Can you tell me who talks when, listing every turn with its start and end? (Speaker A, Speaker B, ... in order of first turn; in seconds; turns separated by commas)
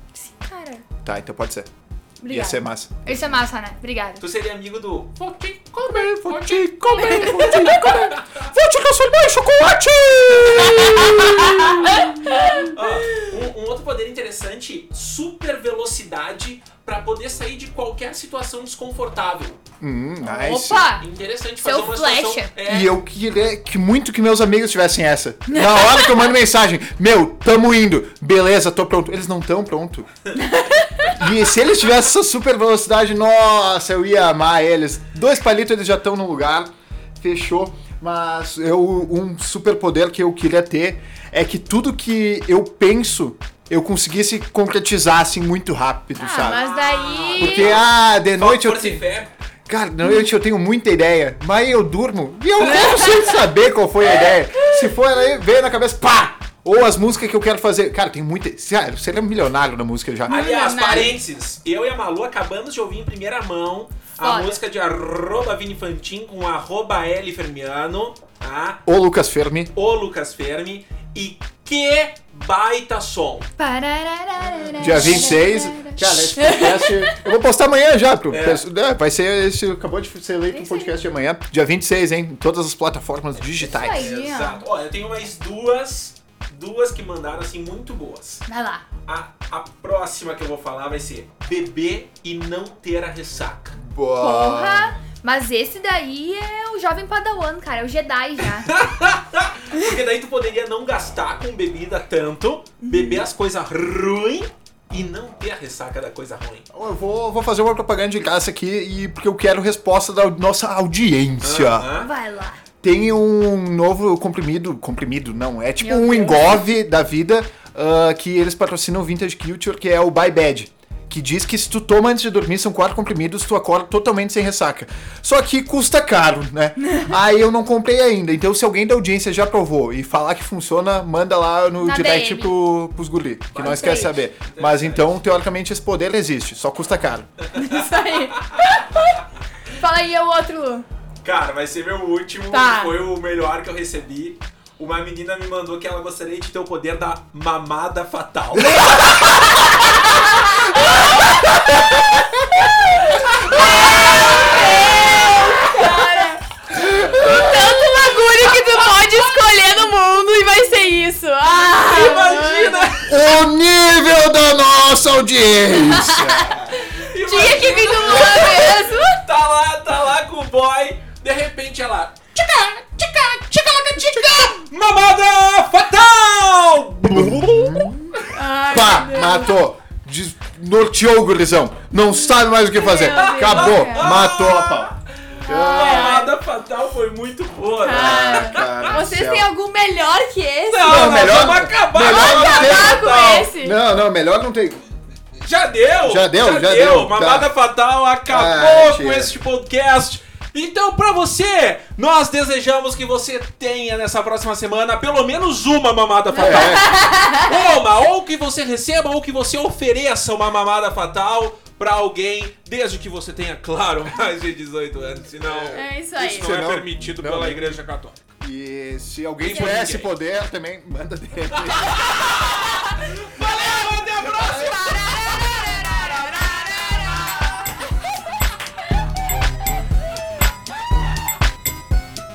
Speaker A: 0.1-0.8, Speaker B: 1.0-1.7, Speaker A: 2.2-4.2, Speaker B: 2.3-3.3, Speaker C: 4.2-8.3, Speaker B: 5.8-11.8, Speaker A: 6.9-7.8, Speaker C: 10.3-12.0, Speaker A: 11.2-13.3, Speaker C: 12.7-19.6, Speaker B: 19.8-20.9, Speaker A: 20.2-21.1, Speaker C: 21.0-22.9, Speaker A: 21.6-22.5, Speaker B: 22.6-30.1, Speaker A: 25.5-26.4, Speaker A: 30.4-31.1, Speaker B: 31.0-46.6, Speaker A: 46.1-47.8, Speaker C: 46.4-49.3, Speaker B: 47.4-49.0, Speaker B: 49.7-60.7, Speaker A: 52.6-53.5, Speaker A: 54.0-55.2, Speaker A: 60.3-61.2, Speaker C: 60.3-68.8, Speaker A: 64.2-64.6, Speaker B: 68.8-69.7, Speaker C: 69.7-73.5, Speaker A: 73.6-77.3, Speaker B: 74.8-84.1, Speaker C: 74.9-75.1, Speaker C: 78.3-78.6, Speaker A: 80.5-81.0, Speaker C: 83.3-88.4, Speaker A: 83.7-84.6, Speaker A: 88.5-88.8, Speaker C: 89.0-93.8, Speaker B: 93.8-95.0, Speaker A: 94.2-98.7, Speaker C: 98.4-106.7, Speaker A: 102.8-103.2, Speaker B: 106.7-111.9, Speaker C: 111.4-112.1, Speaker A: 111.9-112.6, Speaker B: 112.8-137.3, Speaker A: 115.8-116.6, Speaker A: 126.8-127.1, Speaker A: 131.8-132.5, Speaker A: 133.6-134.1, Speaker C: 134.4-135.2, Speaker A: 137.5-139.1, Speaker C: 137.6-138.6, Speaker A: 139.7-140.9, Speaker C: 141.2-149.2, Speaker A: 142.5-143.0, Speaker B: 148.6-149.2, Speaker A: 150.4-150.9, Speaker A: 153.1-156.4, Speaker C: 153.7-155.1, Speaker B: 156.7-157.8, Speaker A: 157.0-162.9, Speaker C: 161.8-163.2, Speaker B: 163.0-166.8, Speaker A: 165.7-169.2, Speaker C: 167.0-178.3, Speaker B: 177.1-178.2, Speaker A: 178.3-179.6, Speaker B: 178.7-184.9, Speaker A: 182.1-184.2, Speaker C: 183.0-188.9, Speaker A: 185.4-186.3, Speaker B: 185.5-186.2, Speaker A: 187.8-191.2, Speaker B: 187.9-189.5, Speaker C: 190.7-193.5, Speaker B: 190.8-194.8, Speaker A: 192.1-193.8, Speaker C: 195.4-218.2, Speaker B: 196.0-197.5, Speaker B: 198.3-199.3, Speaker A: 206.3-207.5, Speaker B: 206.4-206.9, Speaker B: 215.4-217.8, Speaker A: 215.7-216.5, Speaker B: 218.4-222.0, Speaker C: 219.4-220.1, Speaker A: 219.5-219.8, Speaker C: 221.5-226.5, Speaker A: 224.4-227.3